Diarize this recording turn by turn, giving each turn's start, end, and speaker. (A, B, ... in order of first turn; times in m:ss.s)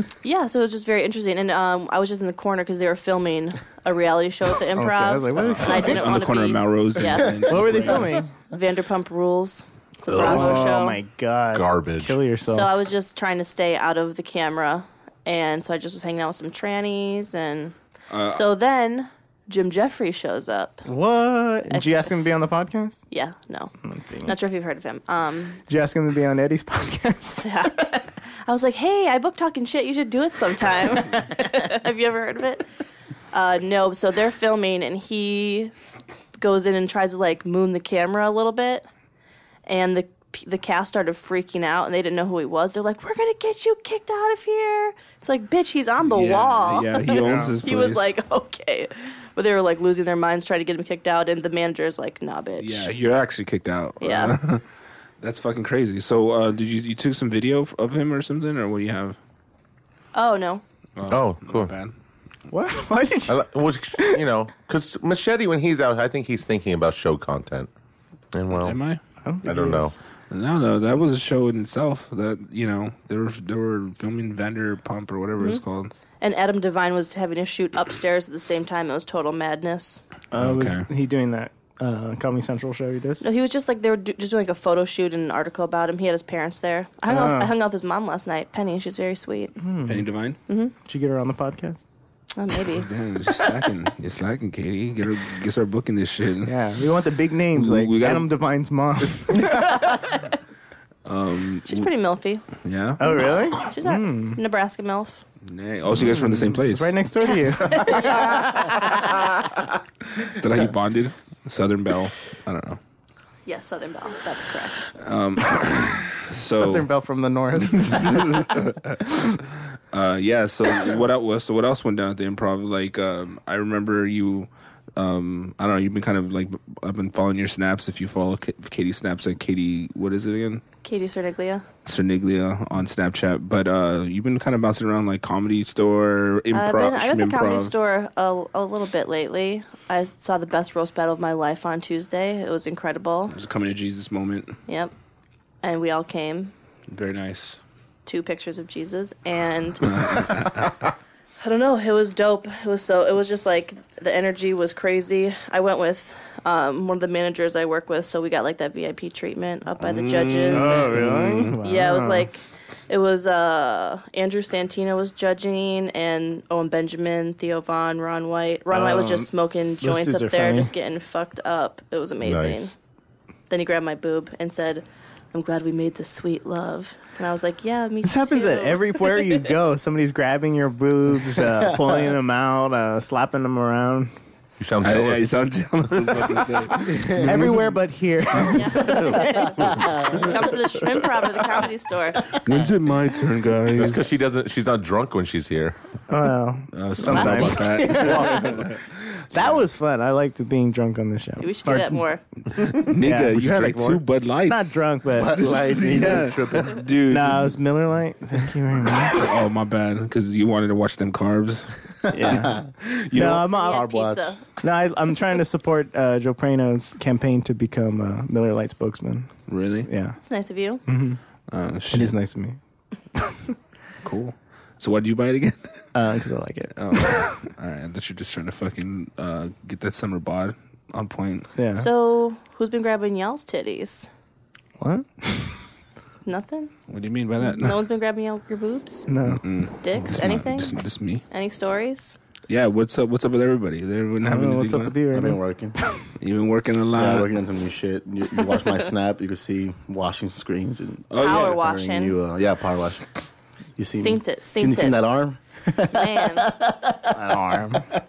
0:00.2-0:08.0 A
0:04.8-0:06.1 B
0:05.5-0:08.1 C
0:07.5-0:08.3 B
0:08.5-0:11.0 A
0:10.1-0:10.7 D
0:10.1-0:12.7 B
0:11.5-0:12.2 D
0:12.5-0:17.8 A
0:18.1-0:18.4 C
0:18.3-0:20.8 A
0:20.9-0:23.0 B
0:21.7-0:22.0 A
0:23.1-0:23.7 A
0:23.8-0:24.4 B
0:24.2-0:25.6 A
0:25.7-0:27.7 B
0:27.4-0:32.7 A
0:33.3-0:35.7 A
0:36.4-0:38.9 A
0:39.7-0:52.9 A
0:46.0-0:48.1 C
0:52.6-0:54.6 C
0:54.0-0:54.4 A
0:55.2-0:59.2 C
1:00.2-1:00.6 A
1:01.0-1:01.9 C
1:01.1-1:01.7 D
1:02.5-1:03.4 B
1:03.3-1:07.7 D
1:08.3-1:08.8 D
1:08.6-1:09.0 C
1:09.2-1:09.9 B
1:09.4-1:10.0 D
1:10.3-1:15.9 C
1:16.2-1:20.0 A
1:20.3-1:23.2 B
1:20.4-1:20.8 C
1:23.2-1:29.6 A
1:27.1-1:27.5 B
1:29.6-1:30.1 B
1:29.9-1:30.4 C
1:30.5-1:30.7 A
1:30.8-1:31.8 B
1:32.4-1:32.9 A
1:32.7-1:36.6 C
1:36.4-1:40.1 B
1:37.5-1:38.3 C
1:41.1-1:41.9 C
1:41.7-1:42.4 A
1:42.6-1:43.0 C
1:43.0-1:44.4 B
1:43.6-1:45.2 A
1:45.5-1:46.9 C
1:46.0-1:48.8 B
1:47.6-1:48.4 A
1:50.2-1:52.8 C
1:53.5-1:54.9 A
1:55.0-1:56.9 C
1:56.4-1:58.5 B
1:57.6-1:59.4 C
1:59.9-2:10.6 C
2:10.8-2:11.6 A
2:11.8-2:17.7 C
2:16.5-2:23.4 A
2:23.3-2:24.6 C
2:24.7-2:24.9 A
2:25.6-2:26.5 A
2:26.9-2:27.6 C
2:28.1-2:30.3 A
2:29.8-2:30.8 C
2:31.4-2:41.0 A
2:39.8-2:41.6 C
2:40.5-2:42.3 B
2:41.6-2:52.8 A
2:48.7-2:49.3 B
2:49.8-2:50.7 B
2:52.2-2:52.7 D
2:53.5-2:59.5 A
2:58.0-3:04.1 B
3:04.6-3:05.3 D
3:04.8-3:07.7 C
3:07.2-3:09.8 B
3:08.5-3:12.4 A
3:09.6-3:10.2 E
3:12.4-3:14.1 C
3:13.7-3:15.8 D
3:16.1-3:18.7 B
3:16.7-3:19.5 C
3:17.0-3:17.9 D
3:17.1-3:17.6 A
3:19.3-3:25.5 B
3:21.4-3:22.2 A
3:22.7-3:24.8 C
3:25.1-3:26.8 E
3:25.6-3:27.6 C
3:27.1-3:29.2 B
3:29.0-3:31.8 C
3:32.1-3:32.6 B
3:32.2-3:34.4 E
3:32.3-3:33.4 C
3:33.1-3:33.8 B
3:33.5-3:34.4 A
3:34.6-3:39.3 B
3:39.5-3:39.9 C
3:39.9-3:40.2 B
3:40.2-3:40.8 A
3:40.9-3:41.2 B
3:41.5-3:42.2 C
3:41.9-3:42.6 B
3:44.0-3:45.8 C
3:45.9-3:47.4 B
3:46.8-3:51.5 C
3:51.6-3:51.9 B
3:51.8-3:54.1 A
3:54.8-3:55.6 B
3:56.2-3:56.7 A
3:56.9-3:57.8 C
3:57.5-3:59.1 A
3:59.1-3:59.4 B
3:59.4-4:01.2 C
3:59.8-4:00.8 A
4:01.3-4:02.2 A
4:02.5-4:05.0 C
4:04.2-4:05.4 B
4:05.1-4:05.8 E
4:06.2-4:07.3 C
4:06.9-4:13.1 E
4:11.1-4:11.6 C
4:11.2-4:12.2 A
4:13.8-4:17.1 E
4:14.0-4:15.0 A
4:15.9-4:16.6 A
4:17.1-4:17.9 B